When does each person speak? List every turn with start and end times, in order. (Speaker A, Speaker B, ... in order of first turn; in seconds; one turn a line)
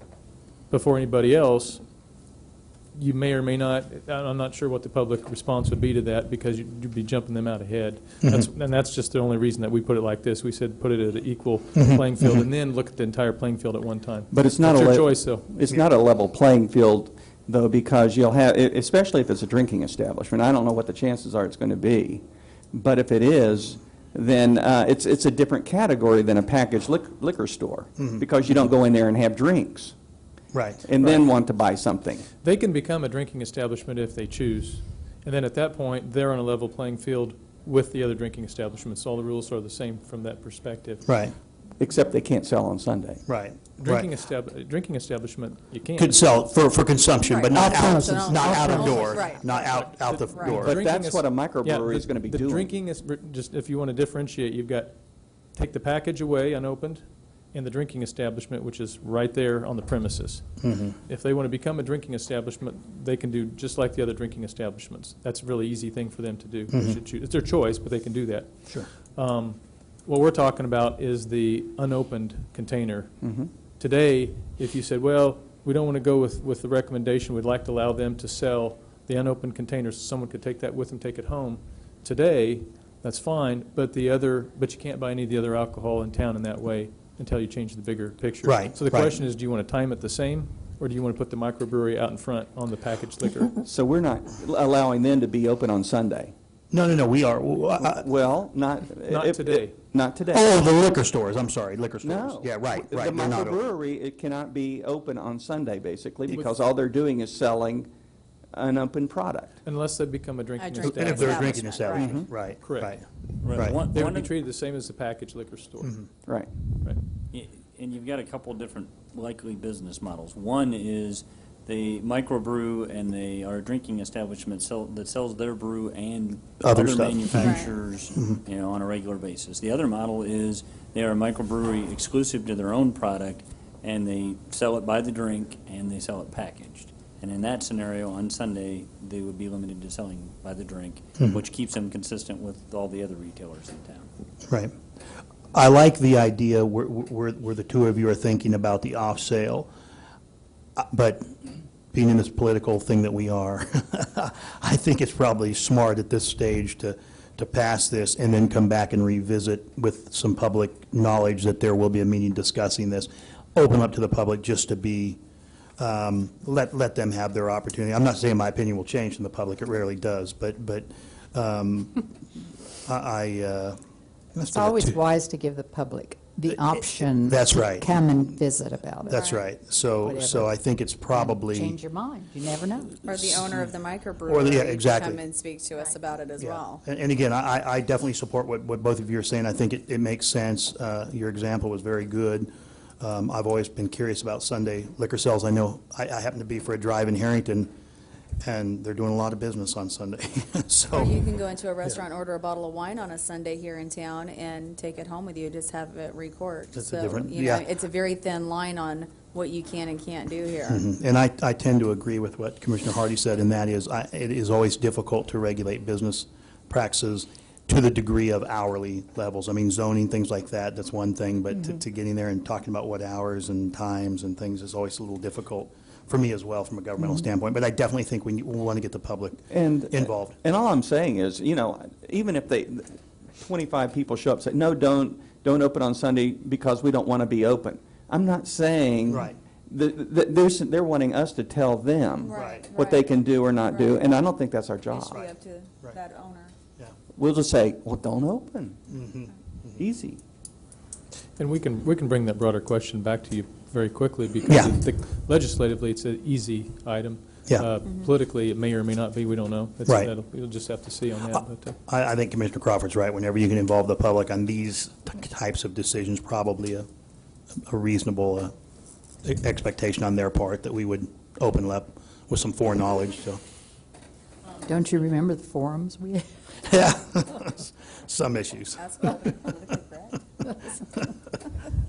Speaker A: 0.7-1.8
Speaker A: 3.0-15.5
Speaker B: 11.8-12.2
Speaker C: 14.3-30.0
Speaker B: 28.0-28.2
Speaker B: 30.5-30.9
Speaker C: 30.8-32.2
Speaker A: 31.0-31.2
Speaker A: 32.4-41.1
Speaker B: 41.0-41.3
Speaker C: 41.8-43.2
Speaker B: 43.3-44.1
Speaker A: 43.8-46.2
Speaker B: 46.0-50.8
Speaker D: 47.2-49.8
Speaker E: 47.6-49.1
Speaker A: 49.9-55.0
Speaker D: 50.3-50.6
Speaker C: 50.4-52.7
Speaker A: 55.5-68.5
Speaker B: 60.6-61.0
Speaker B: 66.7-67.0
Speaker A: 69.2-73.1
Speaker C: 73.2-73.5
Speaker A: 73.8-93.6
Speaker B: 88.4-89.2
Speaker C: 93.6-96.3
Speaker B: 96.7-98.1
Speaker C: 97.8-100.5
Speaker A: 99.1-99.7
Speaker B: 100.3-103.6
Speaker C: 102.0-107.9
Speaker C: 108.5-109.6
Speaker A: 109.7-111.8
Speaker D: 110.6-112.2
Speaker B: 110.8-113.8
Speaker C: 112.0-112.3
Speaker A: 112.6-112.9
Speaker F: 113.4-114.3
Speaker A: 113.9-116.0
Speaker B: 115.8-116.1
Speaker F: 117.3-144.1
Speaker B: 126.6-127.6
Speaker D: 127.3-127.7
Speaker B: 128.1-128.4
Speaker B: 144.5-144.7
Speaker B: 145.5-149.7
Speaker B: 150.8-151.2
Speaker B: 151.9-165.2
Speaker B: 165.8-172.1
Speaker B: 172.8-173.8
Speaker B: 174.3-175.0
Speaker E: 174.5-179.4
Speaker B: 176.6-177.9
Speaker B: 179.1-181.8
Speaker E: 180.0-183.1
Speaker D: 183.1-186.8
Speaker B: 183.2-183.6
Speaker B: 184.3-185.2
Speaker B: 186.4-197.7
Speaker B: 198.4-201.2
Speaker D: 200.9-210.8
Speaker B: 206.7-207.7
Speaker B: 210.7-230.4
Speaker C: 229.5-245.2
Speaker B: 239.1-239.4
Speaker D: 242.2-243.1
Speaker B: 242.3-242.7
Speaker D: 243.6-244.2
Speaker D: 244.9-246.5
Speaker B: 245.1-246.0
Speaker C: 247.2-248.9
Speaker B: 248.9-249.8
Speaker C: 249.8-250.2
Speaker A: 251.4-261.8
Speaker B: 254.5-254.8
Speaker B: 259.9-260.1
Speaker B: 261.3-266.9
Speaker B: 267.7-268.5
Speaker B: 269.2-273.4
Speaker E: 274.6-276.3
Speaker B: 276.7-279.2
Speaker D: 278.8-280.2